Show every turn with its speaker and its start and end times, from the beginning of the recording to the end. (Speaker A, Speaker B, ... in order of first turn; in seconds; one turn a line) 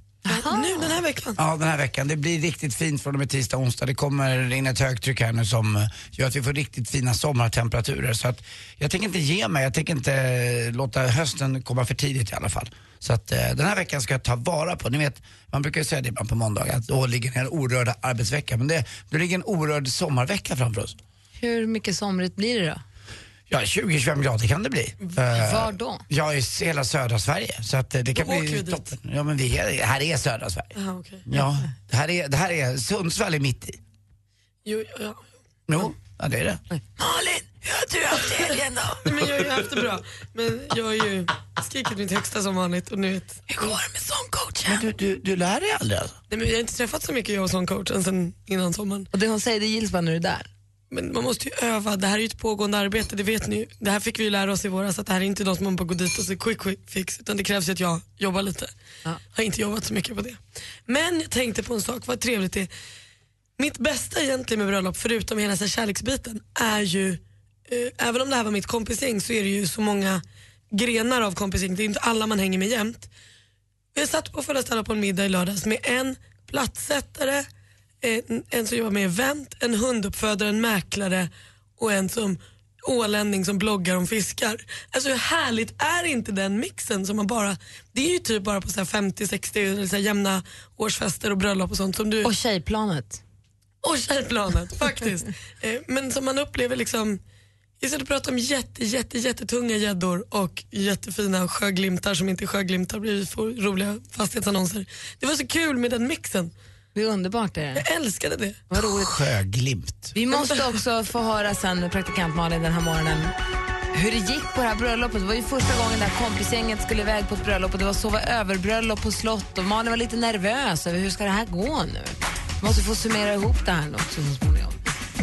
Speaker A: 0.2-1.0
Speaker B: 0.3-1.4
Speaker C: 1.4-21.0
Speaker A: 21.4-22.8
Speaker C: 23.5-30.7
Speaker A: 25.3-26.0
Speaker B: 28.1-28.9
Speaker B: 30.7-31.2
Speaker C: 31.3-33.8
Speaker B: 34.6-35.3
Speaker C: 35.7-36.6
Speaker A: 36.8-39.1
Speaker B: 39.0-43.5
Speaker A: 43.5-44.8
Speaker C: 44.6-46.2
Speaker B: 46.3-49.1
Speaker A: 49.1-50.5
Speaker B: 50.9-58.7
Speaker B: 59.3-62.7
Speaker B: 63.6-73.1
Speaker B: 73.9-77.5
Speaker B: 78.0-92.3
Speaker A: 92.2-93.2
Speaker B: 93.8-97.2
Speaker B: 97.8-106.5
Speaker A: 106.9-107.8
Speaker B: 107.8-108.6
Speaker A: 108.7-109.1
Speaker C: 108.8-110.1
Speaker A: 110.1-113.3
Speaker A: 113.9-124.8